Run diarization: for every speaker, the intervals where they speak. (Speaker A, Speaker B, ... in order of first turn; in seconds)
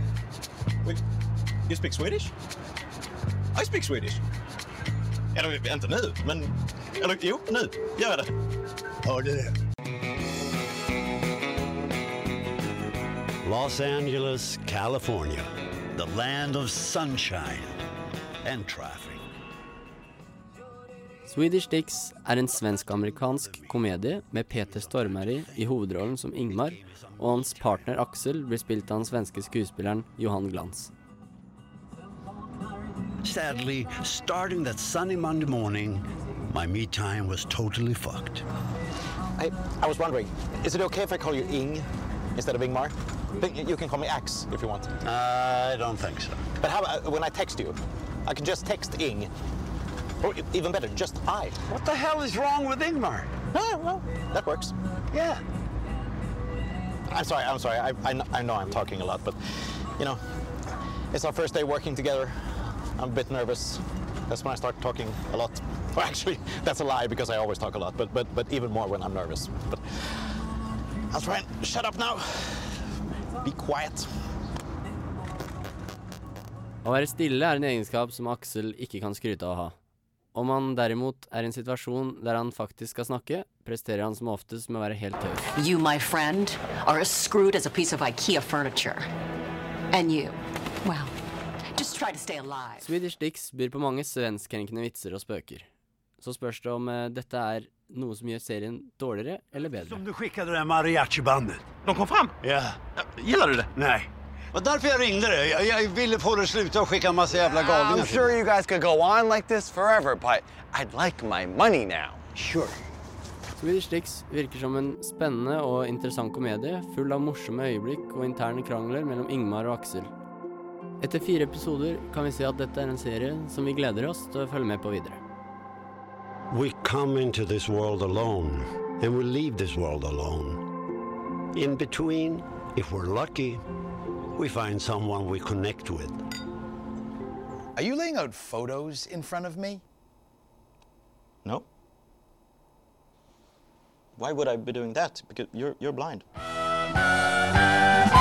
Speaker A: 1.7-2.3, 3.5-4.2, 5.3-8.3, 39.4-44.9, 46.6-49.3, 50.2-51.6, 53.5-54.7, 57.1-59.4, 61.1-69.8, 71.1-72.8, 73.4-74.1, 101.8-102.3, 103.0-103.7, 144.2-146.2
Speaker B: 9.0-9.5, 13.4-17.8, 18.4-19.2, 22.5-23.8, 24.5-27.9, 33.2-38.4, 45.0-46.4, 51.6-53.3, 55.1-55.4, 99.6-101.6, 102.4-102.8, 103.7-108.4, 112.3-112.8, 126.5-130.6, 131.5-133.6, 134.3-136.2
Speaker C: 21.2-30.9, 76.8-79.7, 80.3-85.5, 92.8-95.7, 96.2-100.0, 113.6-120.1, 121.0-125.2
Speaker D: 85.5-89.1, 89.9-91.1, 91.8-92.8
Speaker E: 107.4-112.2
Speaker F: 137.8-139.8